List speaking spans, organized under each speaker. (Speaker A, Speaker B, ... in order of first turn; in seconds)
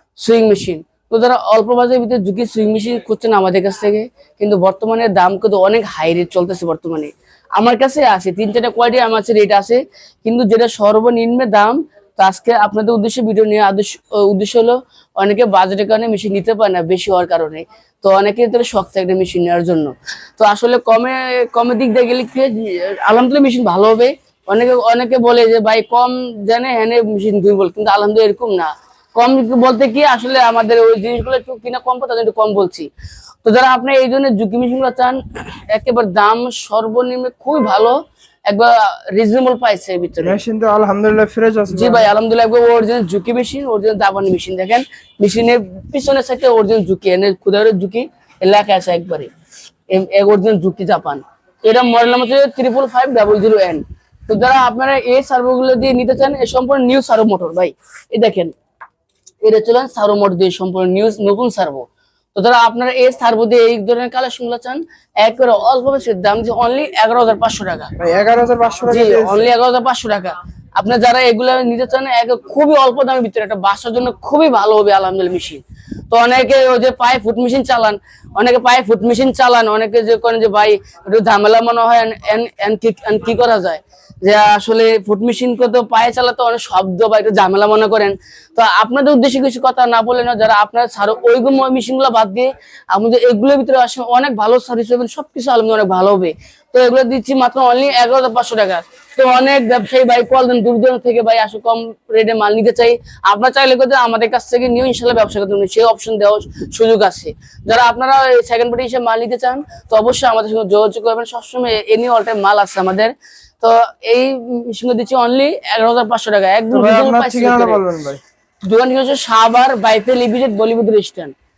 Speaker A: 0.2-32.9, 33.4-38.0, 38.5-40.4, 41.7-49.3, 49.9-58.5, 59.4-61.8, 62.3-67.9, 68.9-117.8, 118.7-121.3
Speaker B: 40.2-42.1, 68.0-69.5, 116.7-118.2